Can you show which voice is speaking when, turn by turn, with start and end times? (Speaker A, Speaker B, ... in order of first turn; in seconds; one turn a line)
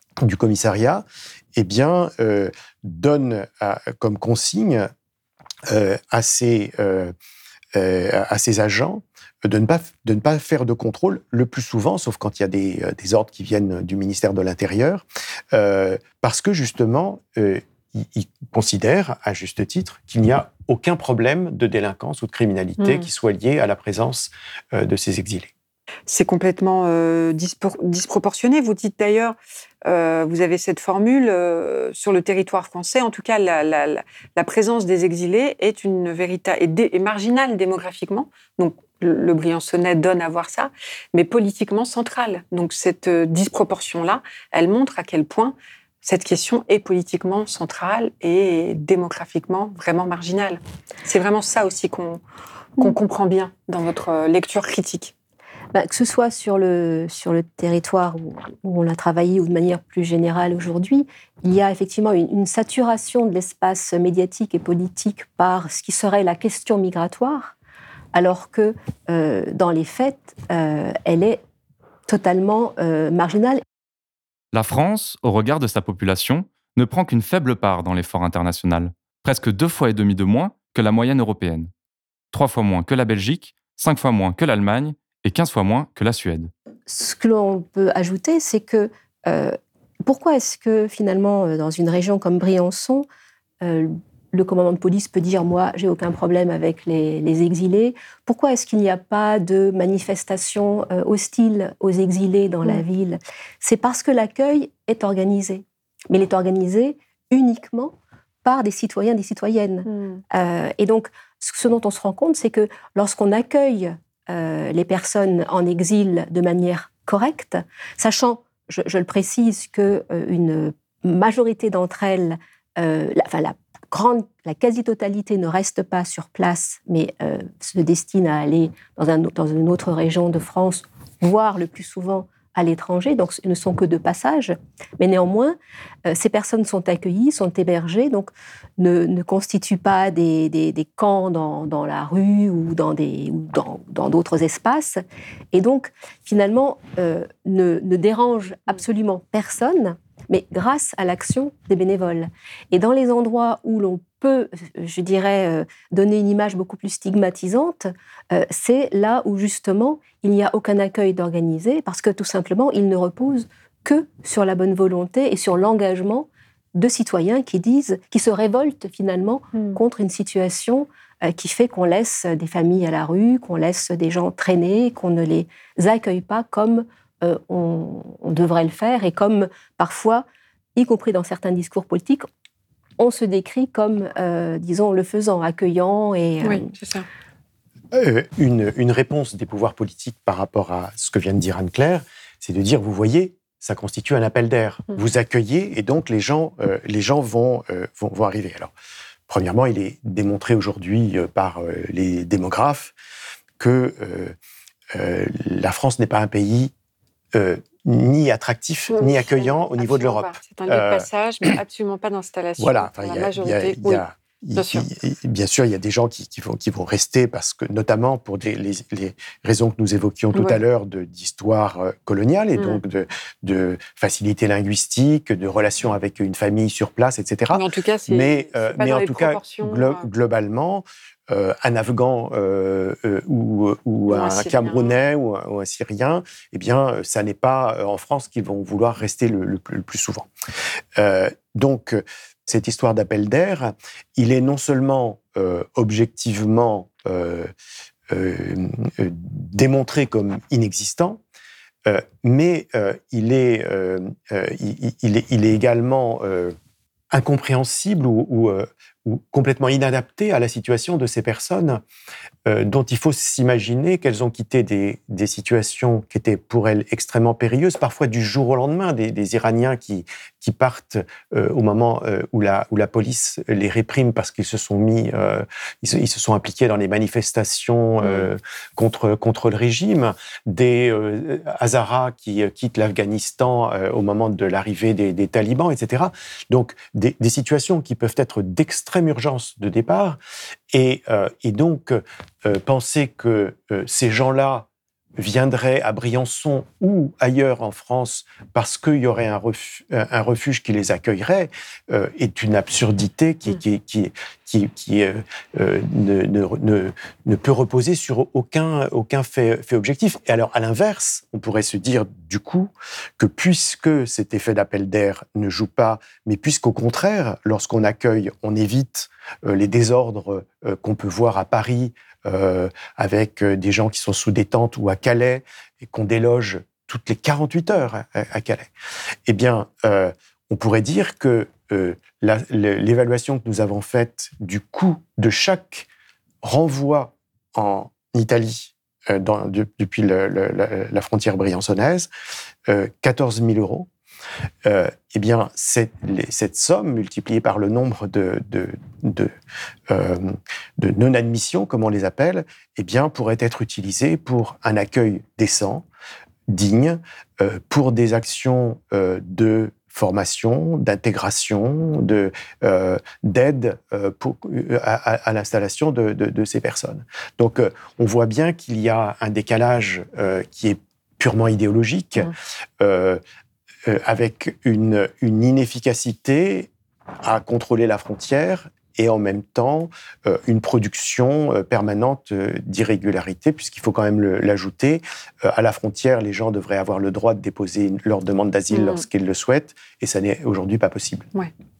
Speaker A: 0.2-4.9
Speaker A: 5.7-7.1
Speaker A: 7.7-25.5
Speaker B: 22.8-23.1
Speaker B: 26.1-52.2
Speaker B: 52.8-55.1
Speaker C: 55.7-67.5
Speaker C: 68.1-71.4
Speaker C: 72.1-73.6
Speaker D: 74.5-81.7
Speaker D: 82.3-86.5
Speaker C: 86.9-93.0
Speaker C: 93.6-180.2
Speaker B: 109.8-110.2
Speaker B: 169.5-169.8
Speaker C: 180.8-182.2
Speaker C: 183.0-186.7
Speaker B: 186.4-187.1
Speaker A: 187.9-198.7
Speaker A: 199.3-202.9
Speaker A: 203.6-204.3
Speaker A: 204.9-206.7
Speaker A: 207.3-211.1
Speaker B: 208.9-214.0
Speaker A: 212.6-240.3
Speaker B: 214.6-214.9
Speaker B: 220.3-220.6
Speaker B: 222.6-222.8
Speaker B: 227.5-230.0
Speaker B: 234.1-234.9
Speaker A: 240.9-247.5
Speaker A: 248.1-251.2
Speaker A: 251.8-256.5
Speaker A: 257.1-261.8
Speaker A: 262.4-290.2
Speaker B: 278.0-278.3
Speaker A: 290.7-328.7
Speaker A: 329.3-335.9
Speaker A: 336.4-342.1
Speaker A: 342.7-343.9
Speaker A: 344.6-349.3
Speaker A: 349.9-355.9
Speaker A: 356.5-373.2
Speaker A: 373.9-376.7
Speaker A: 377.2-391.3
Speaker B: 388.7-389.0